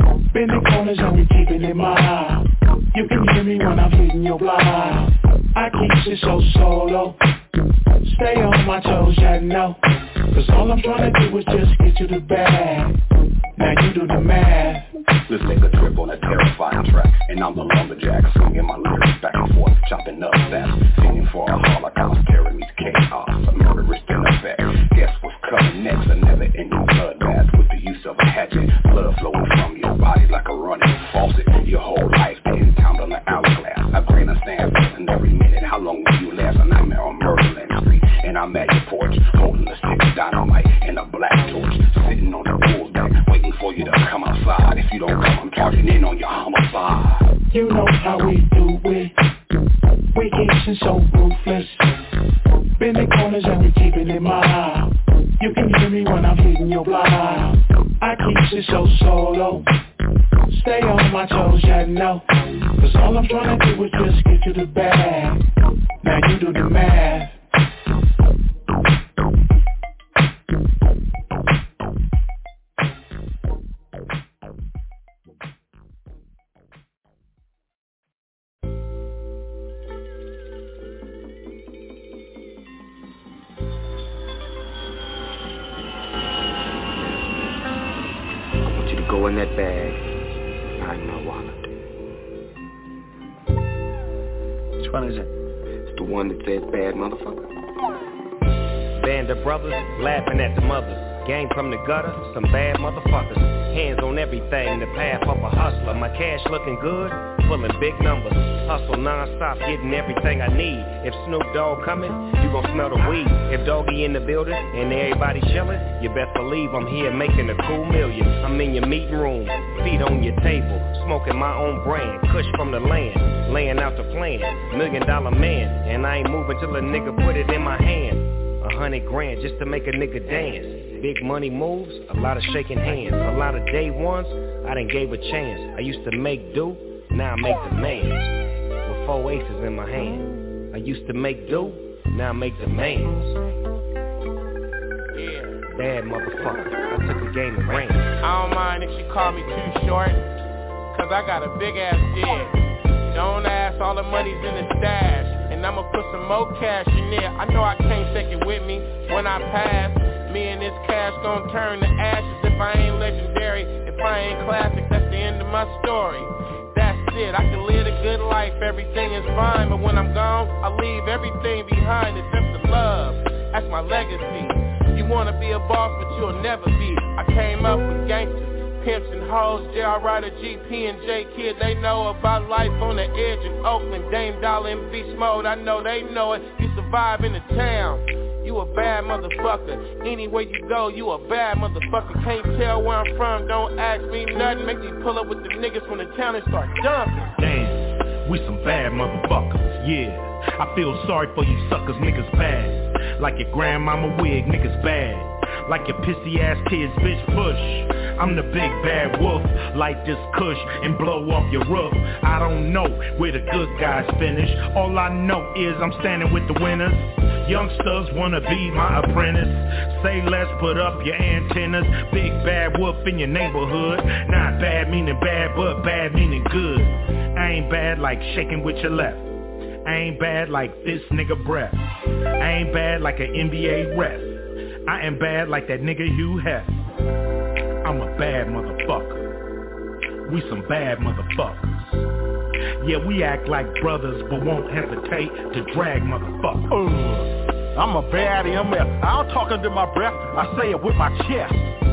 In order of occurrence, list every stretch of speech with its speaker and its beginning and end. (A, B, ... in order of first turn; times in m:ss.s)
0:00.3-0:07.2 A
0:08.0-0:09.8 A
0:10.3-0:13.0 A
0:13.6-0:14.9 A
0:15.3-0:47.3 B
0:47.5-0:49.1 A
0:50.1-0:51.9 A
0:52.8-0:59.6 A
1:00.5-1:02.2 A
1:02.8-1:05.4 A
1:06.0-1:07.4 A
1:28.8-1:29.9 C
1:30.8-1:31.4 C
1:35.9-1:37.2 C
1:39.0-2:18.2 D
2:18.8-2:23.2 D
2:25.1-2:25.6 E
2:25.7-2:28.1 D
2:28.2-2:30.2 E
2:30.9-2:32.6 E
2:33.1-3:17.3 E
3:17.4-3:49.3 F
3:49.8-3:51.8 F
3:52.4-3:56.7 F
3:57.8-3:59.3 F
4:00.3-4:02.1 F
4:02.8-4:06.7 F
4:06.7-4:11.7 G